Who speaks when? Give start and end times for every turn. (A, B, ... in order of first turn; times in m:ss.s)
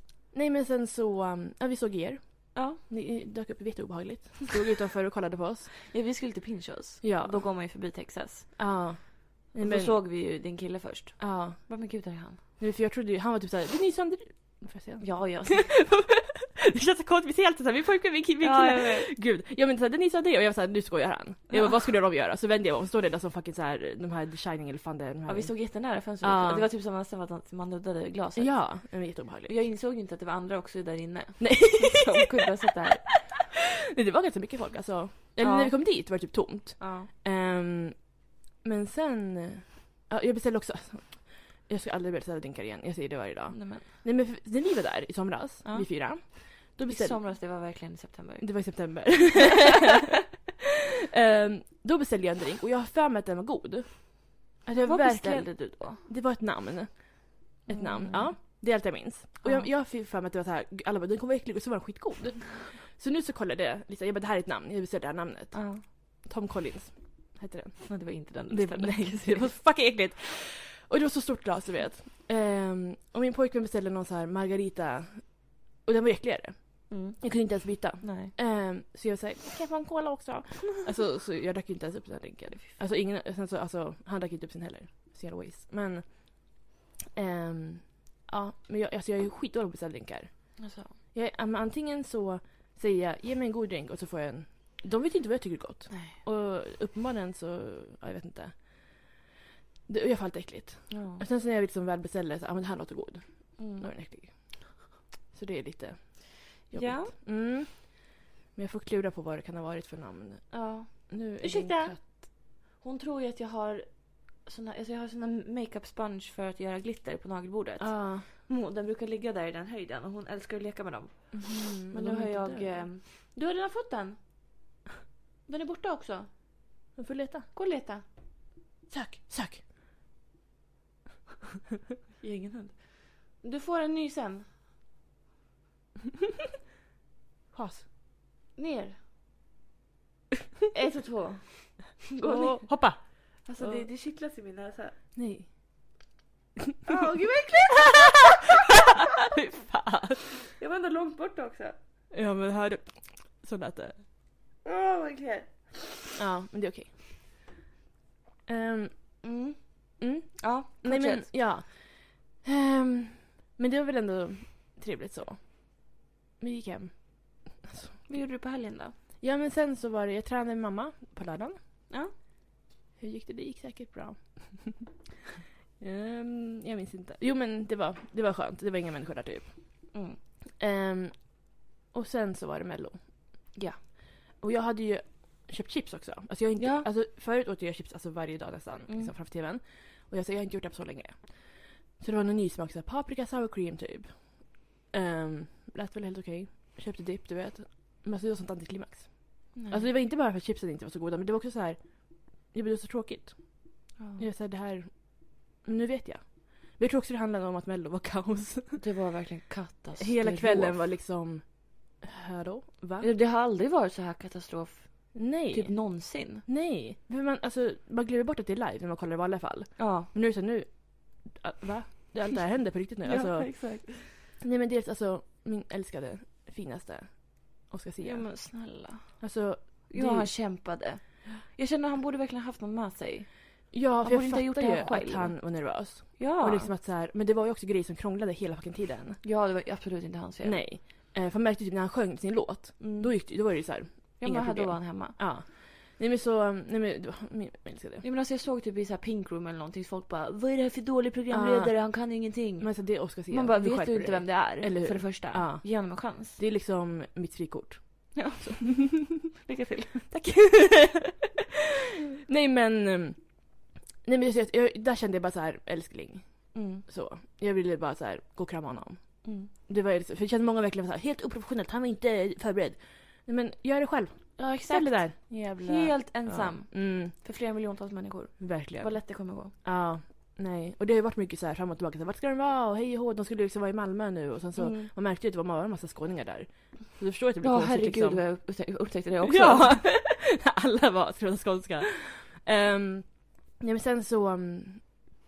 0:00.3-0:05.7 A
0:02.5-0:02.8 B
0:05.8-0:08.6 B
0:07.0-0:07.4 A
0:08.6-0:10.0 A
0:09.5-0:12.4 B
0:11.2-0:11.6 A
0:12.6-0:26.7 A
0:15.0-0:15.7 B
0:18.4-0:19.1 B
0:25.3-0:28.8 B
0:28.4-0:29.5 A
0:29.5-0:33.2 B
0:31.4-0:32.3 A
0:33.9-0:47.2 A
0:35.4-0:35.8 B
0:36.8-0:37.1 B
0:43.5-0:43.9 B
0:45.6-0:48.5 B
0:48.4-0:50.1 A
0:51.0-1:39.0 A
0:54.8-0:56.0 B
0:57.7-0:58.6 B
0:59.4-0:59.7 B
1:05.5-1:05.8 B
1:07.9-1:09.5 B
1:16.9-1:18.3 B
1:30.6-1:31.0 B
1:35.9-1:36.2 B
1:39.9-1:52.0 A
1:40.9-1:41.2 B
1:43.6-1:43.8 B
1:46.7-1:47.1 B
1:50.5-2:04.2 B
1:57.8-1:58.3 A
2:01.4-2:02.9 A
2:05.5-2:06.3 B
2:07.0-2:07.5 A
2:07.5-2:08.0 B
2:08.9-2:09.6 A
2:12.2-2:14.5 B
2:17.5-2:17.9 A
2:18.6-2:19.0 B
2:20.7-2:25.0 B
2:22.2-2:23.9 A
2:25.2-2:25.5 A
2:26.9-2:29.2 B
2:28.7-2:30.3 A
2:30.4-2:31.8 B
2:32.1-2:34.0 A
2:34.6-2:36.0 B
2:36.2-2:37.1 A
2:38.5-2:39.2 A
2:39.2-2:41.3 B
2:40.0-2:45.8 A
2:46.4-2:48.2 A
2:48.1-2:49.0 B
2:49.2-2:51.6 A
2:53.0-2:55.0 A
2:55.8-2:59.5 A
2:59.9-3:00.2 B
3:00.6-3:01.4 A
3:01.9-3:03.0 A
3:03.5-3:03.8 B
3:04.3-3:21.8 A
3:06.6-3:06.9 B
3:19.5-3:19.8 B
3:22.5-3:23.6 A
3:24.0-3:24.2 B
3:24.2-3:28.8 A
3:28.8-3:30.8 B
3:30.0-3:33.1 A
3:33.0-3:36.4 B
3:35.1-3:48.3 A
3:39.8-3:40.1 B
3:43.0-3:44.2 B
3:48.0-3:49.2 B
3:49.2-3:50.4 A
3:49.9-3:55.5 B
3:53.7-3:59.2 A
3:56.2-3:56.7 B
3:59.2-4:00.6 B
4:00.4-4:08.0 A
4:02.8-4:03.1 B
4:04.2-4:05.2 B
4:08.0-4:16.4 B
4:11.3-4:11.8 A
4:12.6-4:18.9 A
4:18.1-4:20.1 B
4:20.1-4:21.3 A
4:22.2-4:23.2 A
4:24.0-4:37.1 A
4:26.5-4:26.8 B
4:29.2-4:29.5 B
4:34.4-4:39.5 B
4:38.4-4:48.2 A
4:44.6-4:44.9 B
4:47.4-4:49.8 B
4:49.2-4:55.1 A